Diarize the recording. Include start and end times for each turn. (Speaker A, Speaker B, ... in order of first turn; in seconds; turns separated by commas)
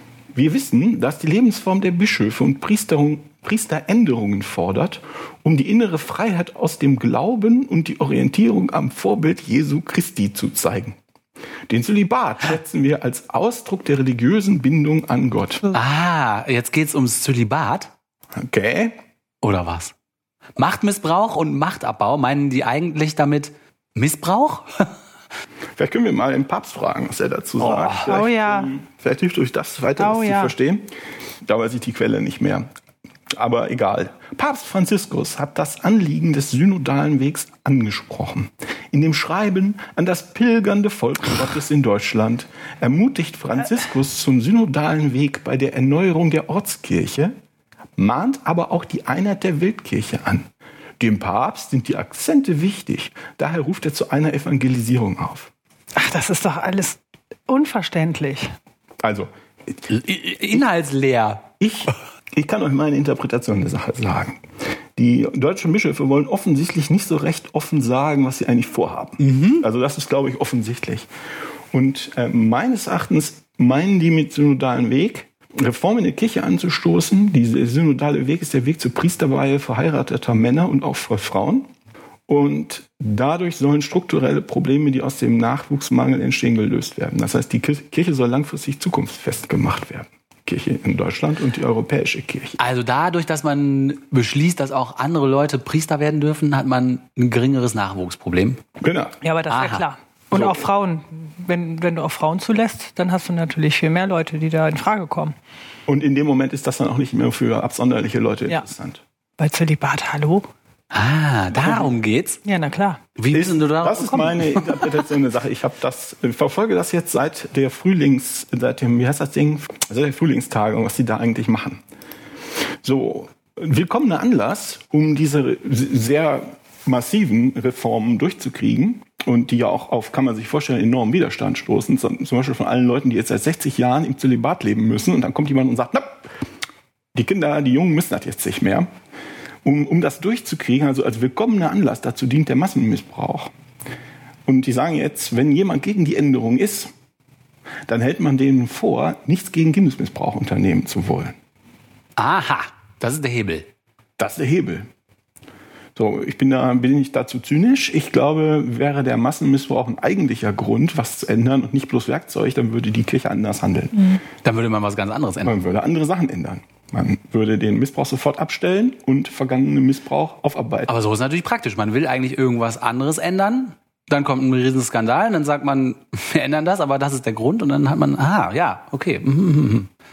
Speaker A: 0.3-11.0, Speaker A: 11.7-15.7, Speaker B: 15.7-17.9, Speaker A: 18.4-19.0, Speaker B: 19.4-19.9, Speaker B: 20.6-24.9, Speaker A: 25.8-30.9, Speaker B: 27.6-28.1, Speaker C: 28.0-28.7, Speaker C: 30.0-30.5, Speaker A: 31.4-32.7, Speaker A: 33.3-47.3, Speaker A: 48.0-55.5, Speaker C: 56.0-58.5, Speaker A: 59.0-59.3, Speaker B: 59.9-61.5, Speaker A: 61.6-64.4, Speaker A: 65.0-71.1, Speaker B: 69.2-69.6, Speaker A: 71.7-81.7, Speaker A: 82.3-92.6, Speaker B: 92.6-98.6, Speaker A: 98.8-99.2, Speaker C: 99.2-105.3, Speaker B: 99.5-99.8, Speaker A: 100.3-100.6, Speaker A: 105.9-109.0, Speaker C: 109.4-110.5, Speaker B: 110.9-112.4, Speaker C: 112.4-113.0, Speaker B: 113.2-114.9, Speaker A: 113.3-121.8, Speaker A: 122.8-136.3, Speaker A: 137.1-138.9, Speaker A: 139.6-143.5, Speaker A: 144.4-146.9, Speaker A: 147.9-151.3, Speaker B: 152.2-153.7, Speaker A: 154.2-154.9, Speaker A: 155.9-164.1, Speaker B: 164.4-165.6, Speaker A: 165.4-170.9, Speaker B: 170.9-179.9